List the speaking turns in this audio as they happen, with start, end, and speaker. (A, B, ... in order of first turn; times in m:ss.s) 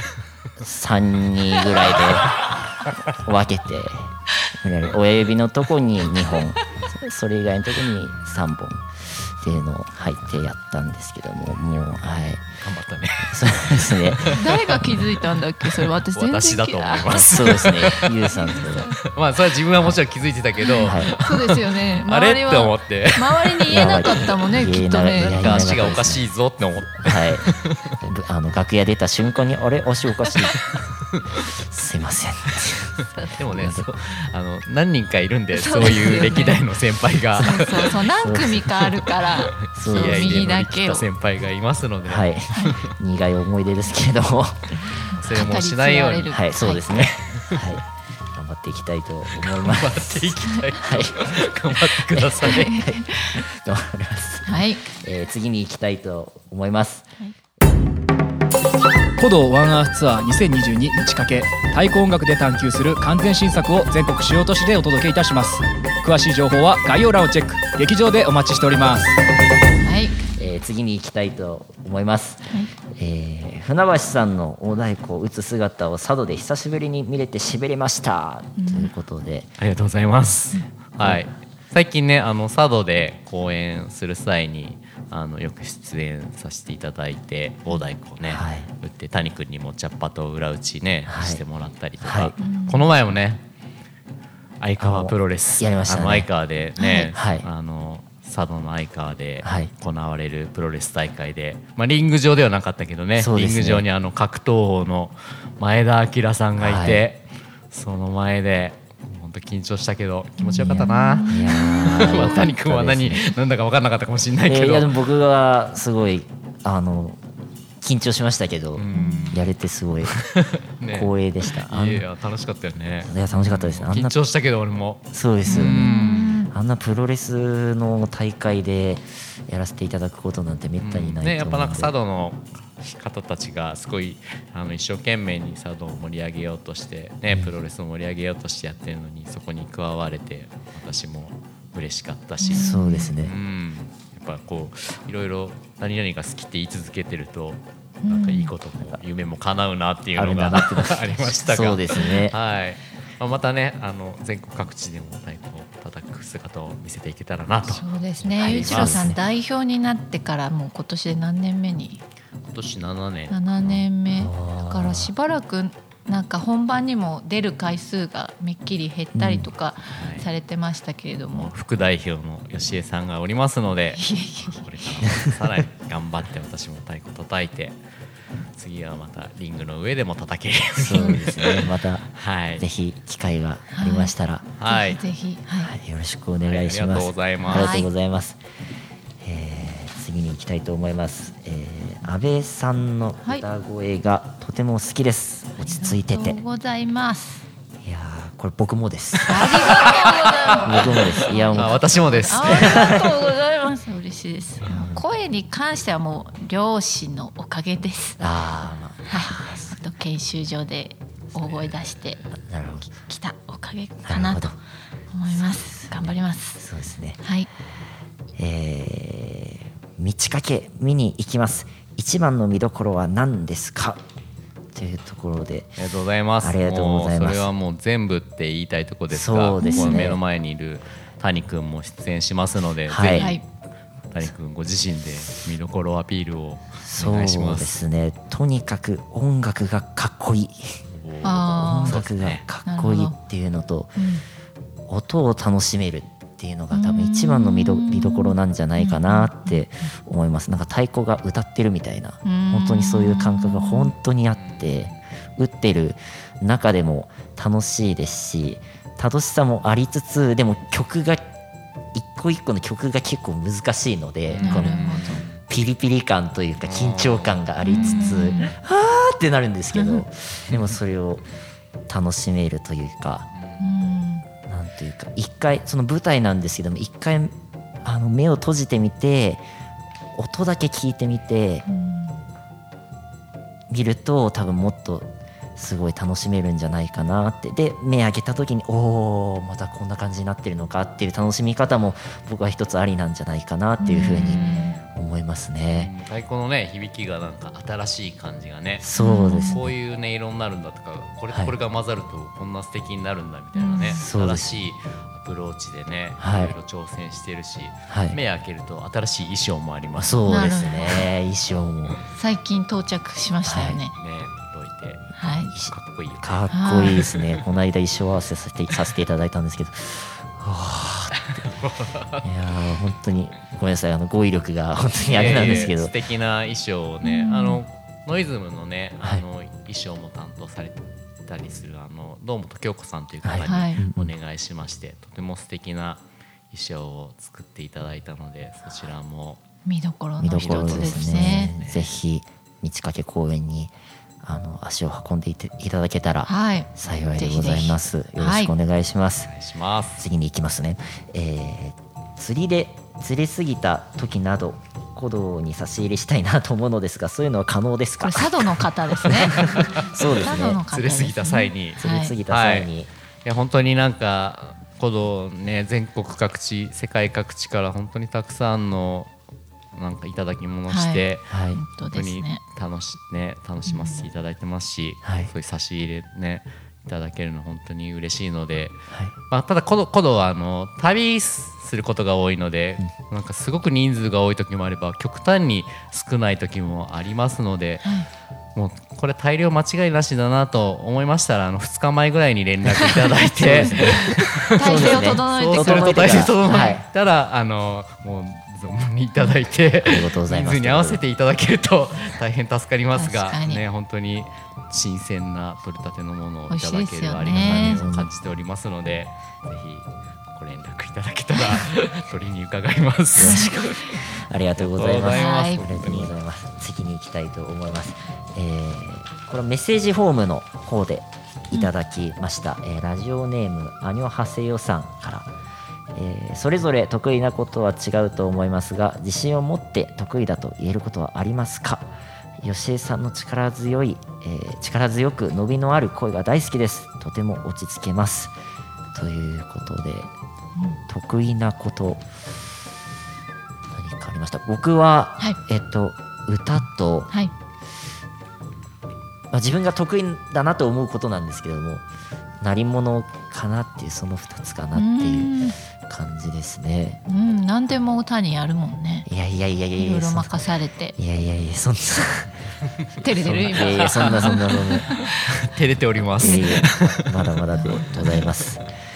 0:00.6-0:02.4 A
0:03.1-0:08.9 A
0:09.4-0:12.5 A
0:12.6-0:15.1 B
0:13.2-0:14.4 A
0:14.3-0:17.6 C
0:15.7-0:24.3 B
0:17.1-0:19.0 A
0:20.6-0:25.8 C
0:20.8-0:21.2 A
0:23.7-0:26.3 A
0:25.2-0:28.0 B
0:27.0-0:27.5 A
0:28.0-0:30.6 A
0:30.5-0:31.5 B
0:31.5-0:33.9 A
0:33.4-0:38.0 B
0:35.5-0:36.6 C
0:37.3-0:38.9 A
0:37.4-0:41.1 C
0:39.4-0:42.9 B
0:39.7-0:40.6 A
0:42.1-0:45.0 A
0:45.1-0:46.9 C
0:45.1-0:47.7 B
0:46.3-0:57.1 A
0:49.5-0:52.9 B
0:52.4-0:53.4 C
0:54.5-0:54.8 C
0:59.2-1:09.1 D
1:09.8-1:10.2 C
1:10.4-1:19.5 A
1:18.6-1:18.9 C
1:19.6-1:33.4 B
1:21.0-1:21.2 A
1:28.2-1:28.7 A
1:31.1-1:31.4 A
1:32.0-1:32.3 A
1:32.4-1:32.9 C
1:34.6-1:54.9 B
1:34.8-1:36.3 A
1:36.8-1:37.1 C
1:37.1-1:37.5 A
1:39.4-1:39.7 A
1:43.2-1:43.9 A
1:46.6-1:47.0 A
1:50.4-1:52.4 C
1:50.6-1:53.2 A
1:54.5-1:57.2 A
1:57.8-2:00.2 A
1:58.8-1:59.4 B
1:58.9-1:59.4 C
2:00.0-2:06.4 B
2:00.9-2:02.1 A
2:03.0-2:04.2 A
2:05.1-2:11.9 A
2:05.5-2:06.5 C
2:10.8-2:39.1 B
2:22.4-2:23.1 C
2:22.5-2:23.4 A
2:28.0-2:28.5 C
2:30.2-2:32.4 A
2:37.7-2:42.0 C
2:38.4-2:39.2 A
2:42.4-2:43.8 B
2:43.3-2:51.5 C
2:44.1-2:45.1 A
2:49.2-2:49.5 A
2:50.0-2:50.3 B
2:51.3-2:57.8 B
2:54.0-2:55.0 C
2:58.6-3:02.6 B
3:00.8-3:04.5 A
3:00.9-3:01.2 C
3:03.7-3:04.1 C
3:04.6-3:05.0 B
3:04.7-3:05.7 C
3:05.6-3:08.4 A
3:06.4-3:07.8 B
3:07.5-3:07.9 C
3:09.2-3:16.4 A
3:15.6-3:17.4 C
3:17.8-3:23.1 A
3:19.3-3:28.2 C
3:21.6-3:23.0 B
3:24.6-3:25.0 A
3:28.2-3:29.7 A
3:29.1-3:32.2 C
3:32.3-3:32.9 A
3:32.9-3:34.6 C
3:34.0-3:34.6 A
3:35.1-3:36.6 C
3:35.3-3:37.2 A
3:37.2-3:37.5 C
3:38.4-3:44.0 A
3:44.7-3:45.8 A
3:45.8-3:53.4 B
3:46.4-3:47.5 A
3:49.1-3:50.2 A
3:49.6-3:50.1 C
3:52.9-3:53.4 A
3:53.1-3:53.4 C
3:54.1-3:57.8 B
3:56.8-4:00.8 A
4:00.9-4:02.4 B
4:01.2-4:02.0 C
4:01.4-4:04.0 A
4:02.6-4:03.2 C
4:04.0-4:04.2 C
4:04.9-4:21.3 A
4:06.7-4:09.6 C
4:12.2-4:13.9 C
4:14.3-4:15.0 B
4:21.9-4:24.9 A
4:24.3-4:25.4 B
4:24.4-4:25.2 C
4:25.4-4:31.2 A
4:26.6-4:28.4 B
4:27.6-4:28.5 C
4:29.7-4:30.0 C
4:30.5-4:30.8 B
4:31.9-4:33.3 A
4:33.3-4:33.6 B
4:33.6-4:34.3 C
4:34.5-4:39.5 A
4:40.2-4:41.6 A
4:41.7-4:42.2 C
4:43.7-4:55.9 A
4:53.8-4:54.8 C
4:54.1-4:55.0 B
4:55.7-5:10.2 B
4:58.8-4:59.6 A
4:59.0-4:59.6 C
5:03.6-5:04.0 C
5:03.9-5:04.6 A
5:06.2-5:06.6 A
5:07.9-5:08.2 A
5:10.0-5:12.0 A
5:10.3-5:11.1 C
5:12.2-5:14.0 C
5:13.4-5:13.8 A
5:14.0-5:15.1 B
5:15.2-5:15.5 C
5:15.5-5:21.2 A
5:15.7-5:17.4 B
5:16.5-5:17.0 C
5:21.1-5:22.3 B
5:22.2-5:26.0 A
5:25.1-5:39.4 B
5:25.4-5:25.7 C
5:27.0-5:27.6 C
5:33.2-5:34.1 A
5:33.4-5:33.8 C
5:39.7-5:41.6 C
5:40.2-5:49.3 A
5:40.4-5:42.0 B
5:46.3-5:48.5 C
5:49.3-5:50.0 B
5:50.0-6:00.6 A
5:58.0-6:02.2 C
6:00.7-6:02.7 B
6:01.8-6:02.9 A
6:03.2-6:09.1 B
6:09.7-6:18.8 B
6:10.7-6:12.4 C
6:11.3-6:11.6 A
6:13.7-6:14.0 C
6:15.0-6:15.3 A
6:19.3-6:27.9 B
6:27.8-6:28.1 C
6:28.6-6:53.9 B
6:32.8-6:36.8 C
6:33.3-6:36.8 A
6:39.8-6:41.0 A
6:43.0-6:43.6 C
6:46.5-6:47.8 C
6:47.3-6:48.1 A
6:53.2-7:05.3 A
6:53.2-6:53.6 C
6:54.6-6:56.1 B
6:55.1-6:55.7 C
7:05.9-7:11.9 A
7:12.4-7:18.3 A
7:18.9-7:20.1 A
7:20.9-7:22.0 A
7:23.7-7:27.1 A
7:29.3-7:31.8 A
7:32.4-7:37.0 A
7:34.8-7:35.6 C
7:37.1-7:39.1 C
7:39.1-7:40.4 A
7:39.8-7:41.0 C
7:41.0-7:42.3 A
7:43.0-7:45.3 C
7:43.1-7:44.4 B
7:43.5-7:44.9 A
7:45.2-7:47.3 B
7:46.2-7:48.6 A
7:46.2-7:46.6 C
7:47.5-7:48.3 C